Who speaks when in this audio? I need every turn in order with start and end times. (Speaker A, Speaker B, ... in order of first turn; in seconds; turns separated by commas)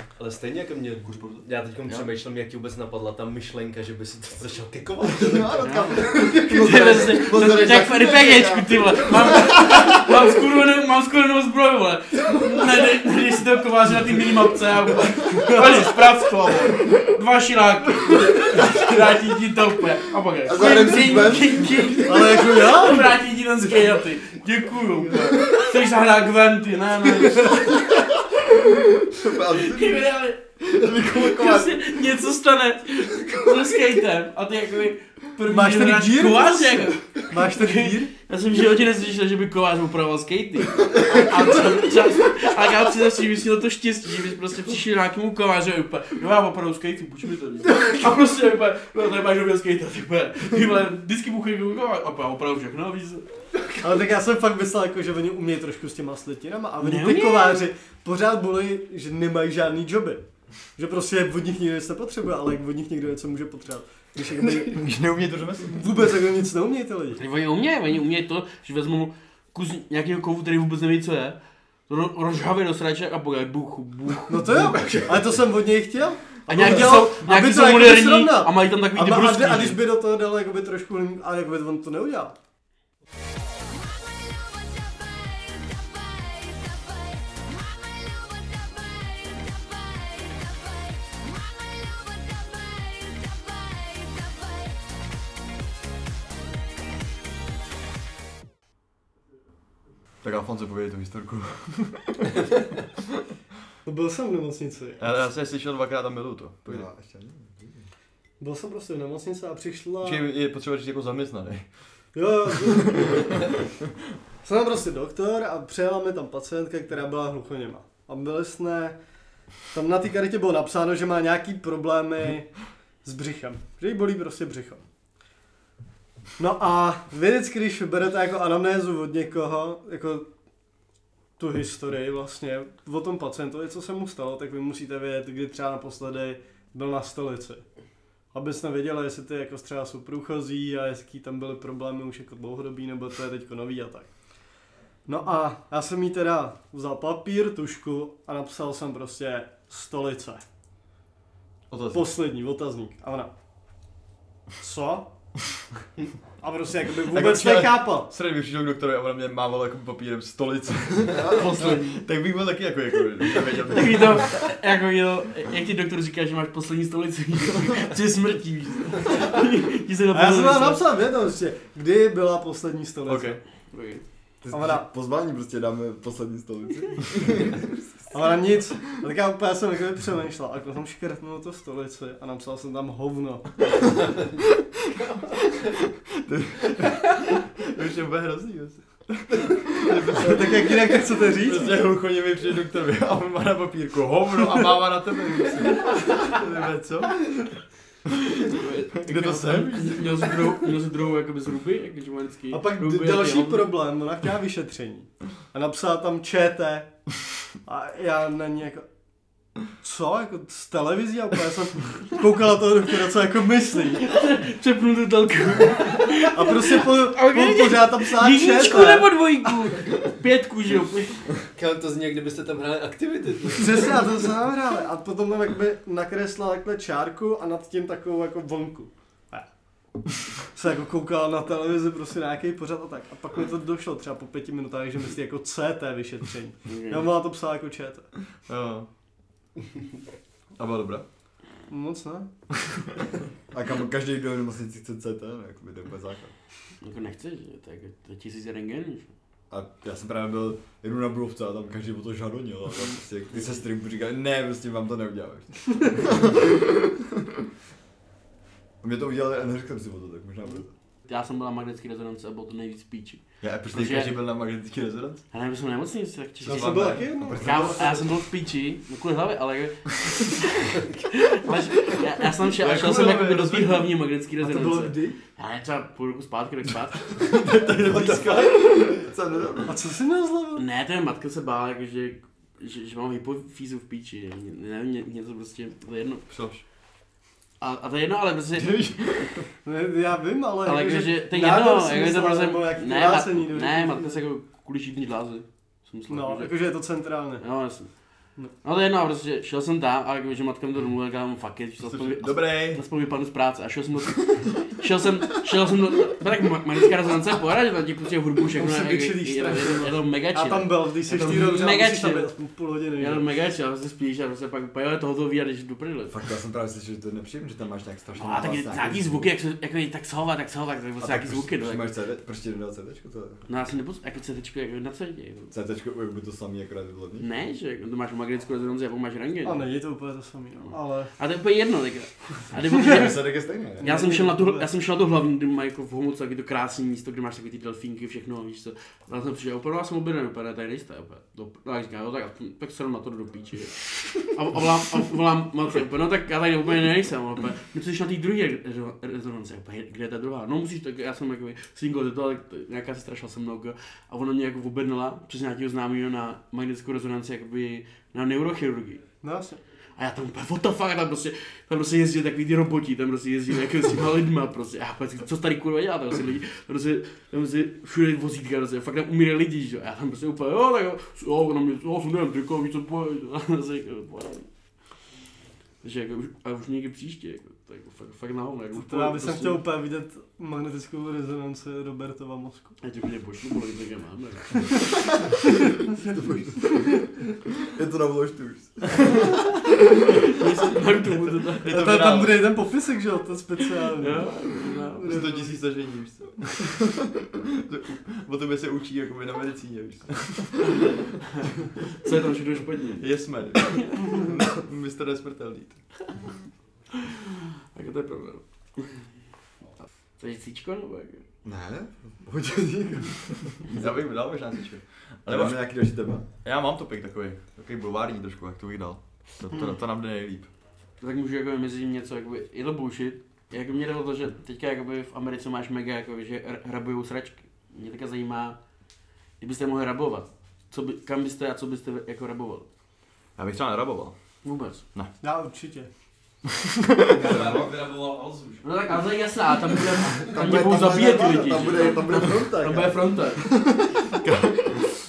Speaker A: 0.2-6.0, Speaker B: 1.1-1.4, Speaker C: 5.0-10.0, Speaker D: 5.6-27.9, Speaker C: 12.3-12.6, Speaker E: 15.4-16.0, Speaker C: 20.4-22.4, Speaker E: 22.0-23.2, Speaker C: 27.9-32.0, Speaker D: 29.4-53.3, Speaker E: 35.5-38.1, Speaker E: 53.8-60.2, Speaker D: 56.8-57.7, Speaker E: 60.8-65.0, Speaker B: 64.3-66.1, Speaker E: 65.6-67.2, Speaker D: 67.2-71.4, Speaker D: 71.9-74.5, Speaker E: 74.3-82.3, Speaker D: 76.5-79.8, Speaker B: 100.2-102.4, Speaker E: 103.8-105.2, Speaker B: 105.0-106.9, Speaker C: 106.7-107.9, Speaker E: 108.4-110.2, Speaker B: 110.0-111.7, Speaker E: 112.1-113.5, Speaker B: 112.6-113.5, Speaker E: 114.4-119.0, Speaker E: 119.7-124.8, Speaker E: 126.4-130.3, Speaker E: 131.4-137.6, Speaker E: 138.3-144.1, Speaker E: 145.1-150.4, Speaker B: 151.7-152.2, Speaker E: 151.9-153.3, Speaker E: 154.6-155.1, Speaker E: 156.4-158.1, Speaker B: 157.1-164.4, Speaker C: 161.1-161.6, Speaker D: 161.3-162.1, Speaker D: 163.7-170.9, Speaker E: 170.1-173.4, Speaker B: 173.1-173.4, Speaker D: 173.7-174.0, Speaker C: 174.4-178.1, Speaker E: 174.5-174.9, Speaker E: 178.1-184.1, Speaker B: 186.2-197.6, Speaker E: 190.2-191.8, Speaker B: 198.3-200.6, Speaker D: 198.5-203.7, Speaker E: 202.5-207.0, Speaker E: 207.6-208.8, Speaker E: 209.8-214.1, Speaker D: 214.0-221.2, Speaker E: 216.3-219.5, Speaker A: 221.6-224.0, Speaker E: 223.6-229.5, Speaker E: 230.5-238.1, Speaker D: 236.7-237.1, Speaker B: 238.5-238.9, Speaker B: 240.6-241.1, Speaker E: 241.7-242.3, Speaker C: 243.5-246.3, Speaker D: 246.8-249.1, Speaker C: 249.5-257.1, Speaker C: 258.8-260.7, Speaker D: 261.1-264.2, Speaker B: 263.4-265.2, Speaker D: 265.3-277.2, Speaker B: 266.4-267.1, Speaker E: 266.4-268.1, Speaker C: 267.1-268.0, Speaker B: 272.6-273.9, Speaker E: 274.4-275.2, Speaker B: 277.2-279.6, Speaker C: 278.9-279.7, Speaker E: 279.7-280.6, Speaker D: 280.6-286.3, Speaker B: 286.3-286.6, Speaker D: 287.6-288.8, Speaker B: 288.6-289.5, Speaker E: 289.6-294.2, Speaker D: 290.6-296.6, Speaker E: 296.1-297.4, Speaker D: 297.4-297.9, Speaker D: 298.6-312.3, Speaker B: 301.8-302.8, Speaker E: 308.5-313.3, Speaker D: 313.0-316.1, Speaker C: 316.1-319.3, Speaker D: 318.2-322.0, Speaker C: 321.0-323.4, Speaker D: 323.5-325.5, Speaker C: 325.5-327.3, Speaker D: 327.2-329.7, Speaker E: 329.4-331.1, Speaker D: 330.7-359.0, Speaker C: 332.8-333.9, Speaker E: 333.8-334.7, Speaker E: 359.2-359.6, Speaker D: 360.0-374.5, Speaker D: 375.8-379.6, Speaker E: 378.8-382.8, Speaker D: 382.8-384.9, Speaker C: 386.1-386.9, Speaker C: 387.7-389.6, Speaker D: 390.3-391.9, Speaker B: 391.6-392.6, Speaker E: 391.7-395.6, Speaker D: 394.0-395.3, Speaker B: 395.1-396.9, Speaker B: 397.5-400.9, Speaker D: 401.9-403.1, Speaker B: 403.0-405.8, Speaker D: 403.6-404.3, Speaker D: 407.7-409.1, Speaker D: 410.2-411.2, Speaker C: 411.4-414.1, Speaker B: 413.7-415.7, Speaker C: 415.3-416.3, Speaker B: 416.3-420.5, Speaker D: 421.0-428.6, Speaker D: 429.4-432.7, Speaker B: 433.4-434.1, Speaker D: 434.4-434.8, Speaker E: 435.2-435.9, Speaker B: 436.7-437.2, Speaker C: 437.1-437.7, Speaker A: 437.1-439.0, Speaker D: 438.6-443.4, Speaker C: 440.2-444.3, Speaker B: 444.1-444.8